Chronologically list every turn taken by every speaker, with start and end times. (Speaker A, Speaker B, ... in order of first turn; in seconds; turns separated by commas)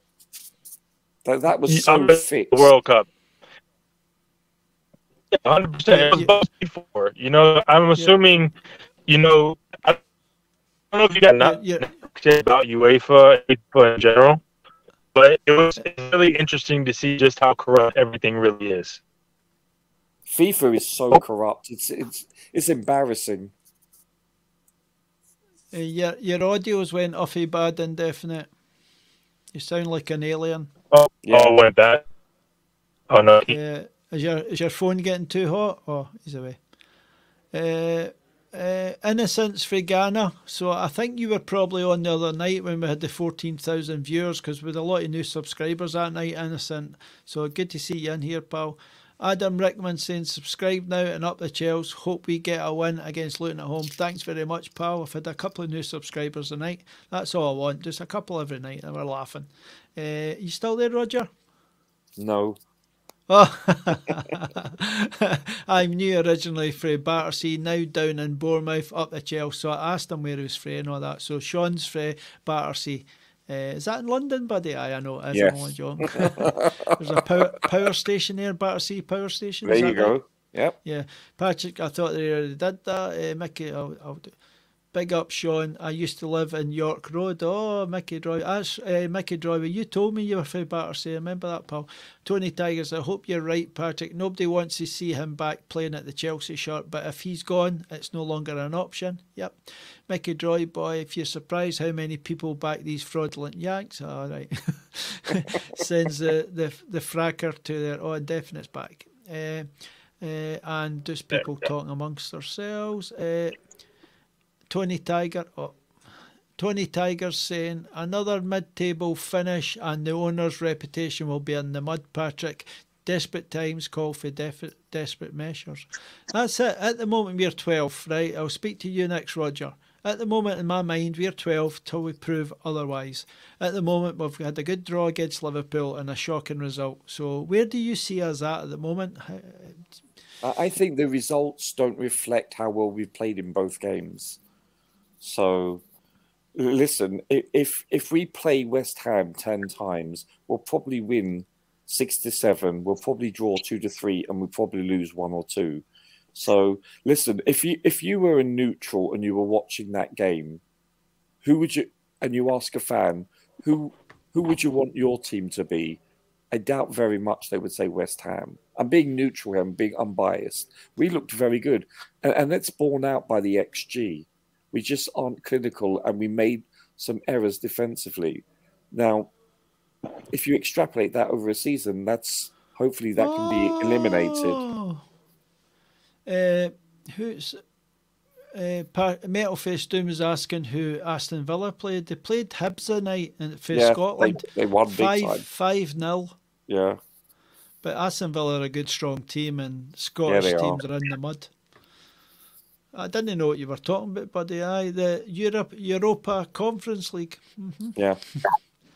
Speaker A: 1.2-2.7, Speaker B: 1.7-3.1, Speaker B: 5.3-8.5, Speaker C: 5.9-6.3, Speaker B: 9.1-10.0, Speaker B: 10.9-14.4, Speaker C: 11.4-11.9, Speaker B: 15.2-19.0, Speaker A: 20.3-23.5, Speaker C: 25.7-28.5, Speaker C: 29.5-30.7, Speaker B: 30.9-32.0, Speaker A: 31.2-31.6, Speaker B: 33.1-33.5, Speaker C: 33.5-36.6, Speaker C: 37.5-61.3, Speaker A: 62.2-62.6, Speaker C: 63.3-80.2, Speaker A: 75.3-76.6, Speaker A: 79.7-80.8, Speaker C: 80.8-84.3, Speaker C: 84.9-99.6, Speaker C: 100.1-109.7, Speaker C: 110.2-113.5, Speaker C: 114.7-115.8, Speaker C: 116.6-139.9, Speaker A: 140.4-144.4, Speaker A: 145.2-145.8, Speaker A: 146.6-155.8, Speaker A: 156.3-160.6, Speaker A: 161.4-166.0, Speaker A: 166.5-179.3, Speaker A: 180.3-184.6, Speaker C: 183.2-185.0, Speaker C: 186.2-187.6, Speaker C: 188.5-196.3, Speaker A: 193.7-195.4, Speaker A: 196.7-197.0, Speaker C: 197.8-201.5, Speaker A: 200.3-200.8, Speaker C: 202.9-208.0